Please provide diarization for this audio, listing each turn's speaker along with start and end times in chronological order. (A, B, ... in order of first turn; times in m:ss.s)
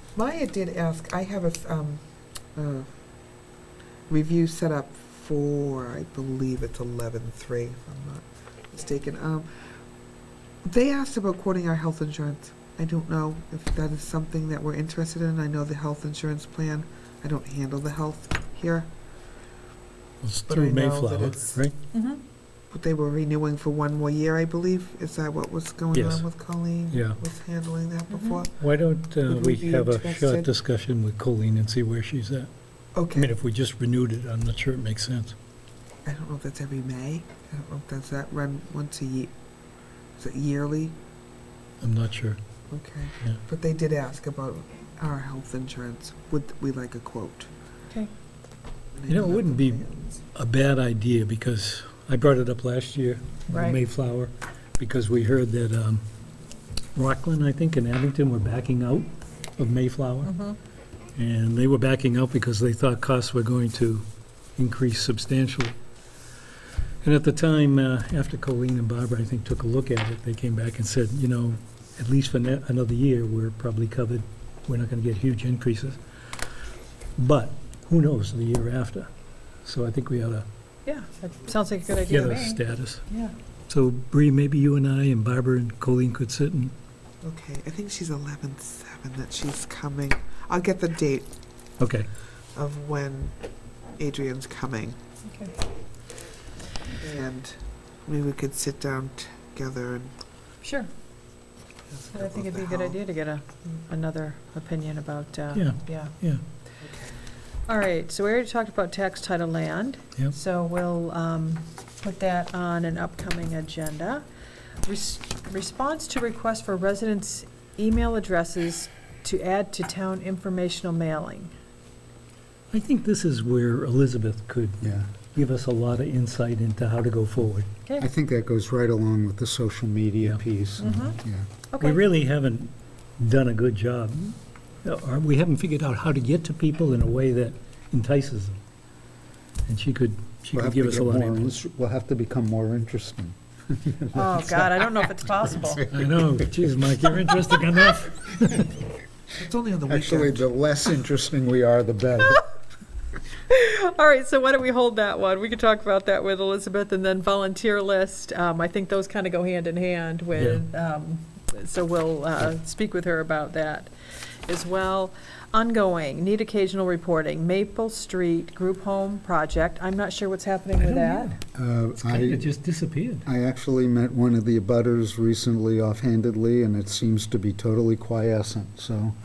0:00.1-0:02.0 A
0:02.5-0:02.9 A
0:04.1-0:09.7 A
0:10.6-0:18.9 A
0:20.2-0:21.7 B
0:20.5-0:21.6 A
0:21.9-0:22.2 C
0:22.7-0:28.6 A
0:25.9-0:26.3 B
0:26.9-0:27.2 B
0:28.1-0:28.4 C
0:28.6-0:32.5 B
0:29.3-0:30.5 A
0:33.0-0:33.3 A
0:33.1-0:35.3 B
0:36.0-0:39.3 A
0:40.2-0:41.0 A
0:41.8-0:42.4 B
0:42.7-0:47.5 A
0:48.9-0:50.2 A
0:49.1-0:56.0 B
0:53.5-0:53.8 C
0:56.9-1:00.3 B
1:00.2-1:00.6 C
1:01.1-1:04.0 B
1:04.6-1:05.8 B
1:07.0-1:16.0 B
1:17.2-1:19.1 B
1:19.6-1:20.4 B
1:20.9-1:23.3 C
1:22.1-1:23.0 B
1:23.7-1:26.7 B
1:27.2-1:31.3 A
1:31.8-1:32.1 B
1:32.5-1:33.4 A
1:34.0-1:35.0 A
1:35.2-1:35.5 C
1:37.0-1:40.1 A
1:40.6-1:40.9 C
1:41.9-1:43.0 A
1:42.1-1:46.1 C
1:45.6-1:46.4 B
1:46.8-1:47.2 A
1:47.7-1:54.3 C
1:54.8-2:01.5 C
2:02.7-2:07.7 B
2:04.8-2:05.1 D
2:08.0-2:11.4 D
2:10.8-2:11.2 C
2:11.7-2:12.0 C
2:11.8-2:18.6 B
2:19.6-2:21.5 B
2:20.5-2:24.7 D
2:24.1-2:25.9 C
2:25.6-2:26.3 D
2:25.9-2:28.7 B
2:29.3-2:30.5 A
2:29.9-2:32.4 D
2:33.5-2:43.9 C
2:40.4-2:40.6 B
2:44.4-2:51.3 C
2:50.8-2:51.4 B
2:51.6-2:52.5 D
2:52.0-2:53.3 B
2:53.2-2:59.1 D